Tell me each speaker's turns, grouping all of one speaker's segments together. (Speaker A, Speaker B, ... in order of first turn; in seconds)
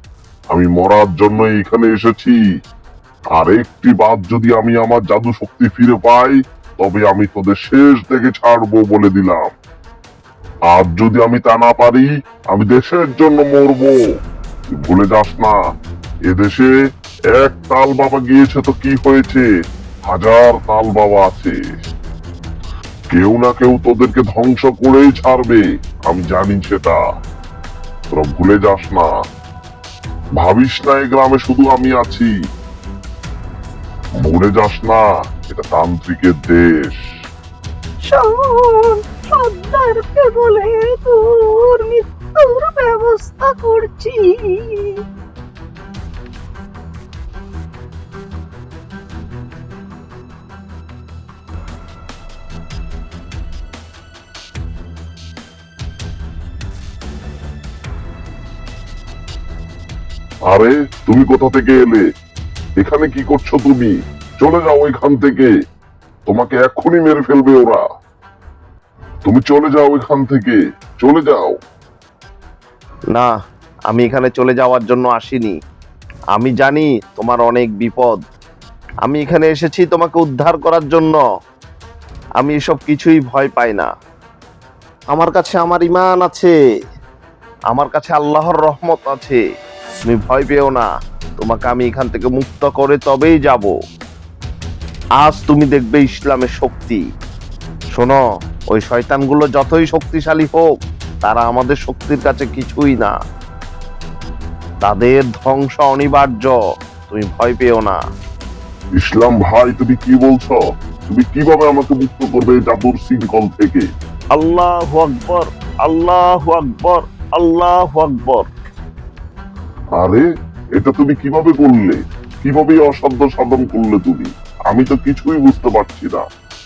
Speaker A: 0.5-2.4, 3.4-9.5, 10.7-14.0, 14.8-15.6, 16.3-16.7, 17.3-19.4, 20.1-21.5, 23.1-27.0, 28.1-29.1, 30.4-32.3, 34.2-37.0, 60.5-62.0, 62.8-65.5, 66.3-67.8, 69.2-71.5, 109.0-110.6, 111.1-113.9, 120.0-120.2, 120.8-126.2
Speaker B: 38.1-45.0
Speaker C: 73.9-75.6, 76.3-78.2, 79.0-81.2, 82.4-83.9, 85.1-86.5, 87.7-89.4, 90.1-90.9, 91.4-93.7, 95.2-97.0, 98.7-100.7, 101.2-103.1, 104.8-106.5, 107.1-108.0, 114.4-118.5